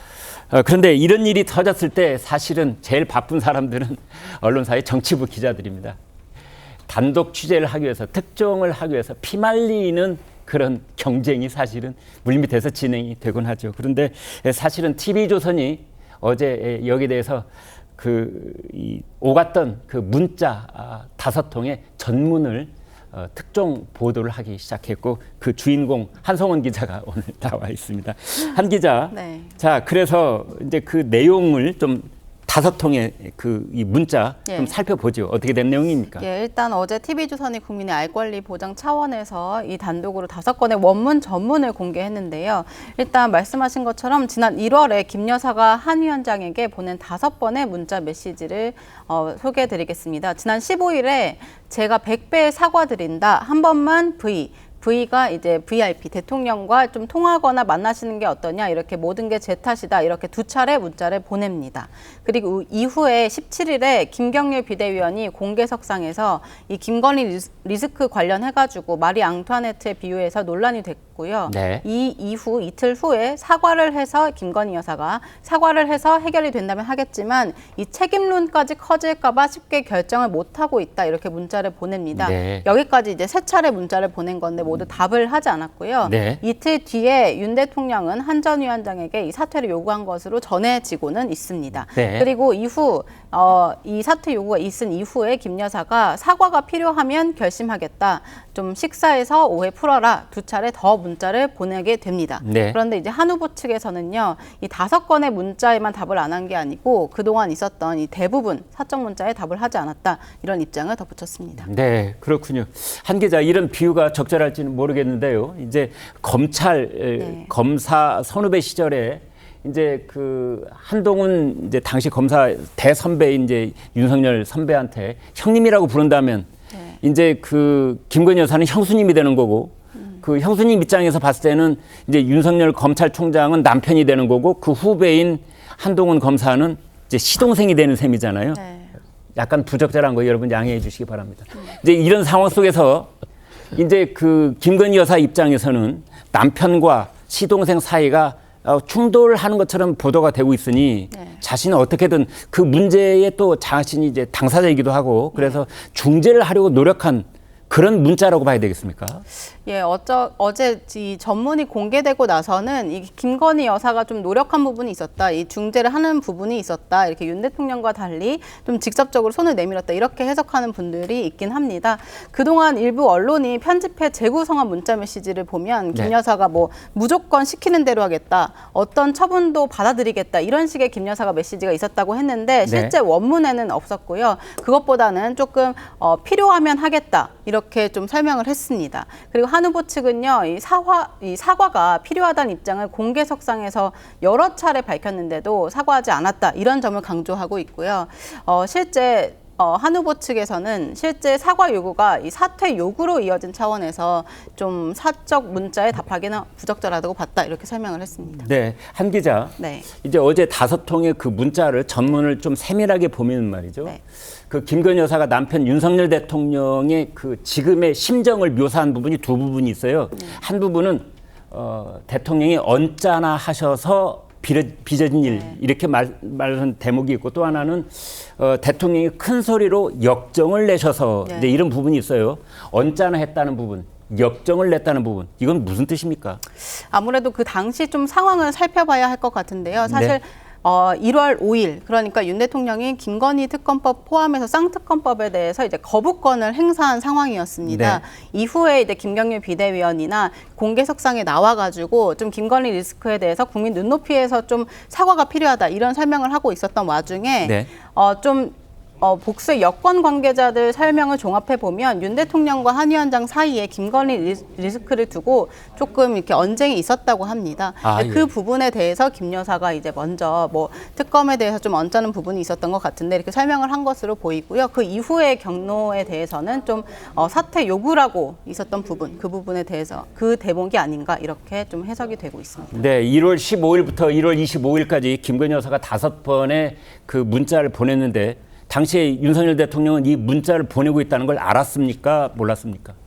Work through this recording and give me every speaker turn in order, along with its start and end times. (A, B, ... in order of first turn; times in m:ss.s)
0:00.3-0:06.0 A
0:06.9-0:36.2 A
0:29.1-0:29.6 B
0:34.5-0:34.8 B
0:36.2-1:51.7 B
1:11.5-1:11.8 A
1:22.2-1:22.7 A
1:26.0-1:26.4 A
1:32.0-1:32.3 A
1:42.4-1:42.8 A
1:51.6-2:06.5 A
1:57.2-1:57.5 B
2:06.7-2:07.0 B
2:07.0-2:18.6 A
2:10.0-2:10.2 B
2:18.5-2:18.9 B
2:19.3-2:23.1 A
2:23.7-2:39.2 A
2:31.1-2:31.4 B
2:35.3-2:35.6 B
2:39.5-3:28.5 B
3:02.6-3:02.9 A
3:28.4-3:56.4 A
3:29.6-3:29.9 B
3:51.2-3:51.5 B
3:56.6-4:42.7 B
3:59.9-4:00.2 A
4:07.7-4:08.0 A
4:17.4-4:17.7 A
4:27.8-4:28.3 A
4:42.7-4:52.9 A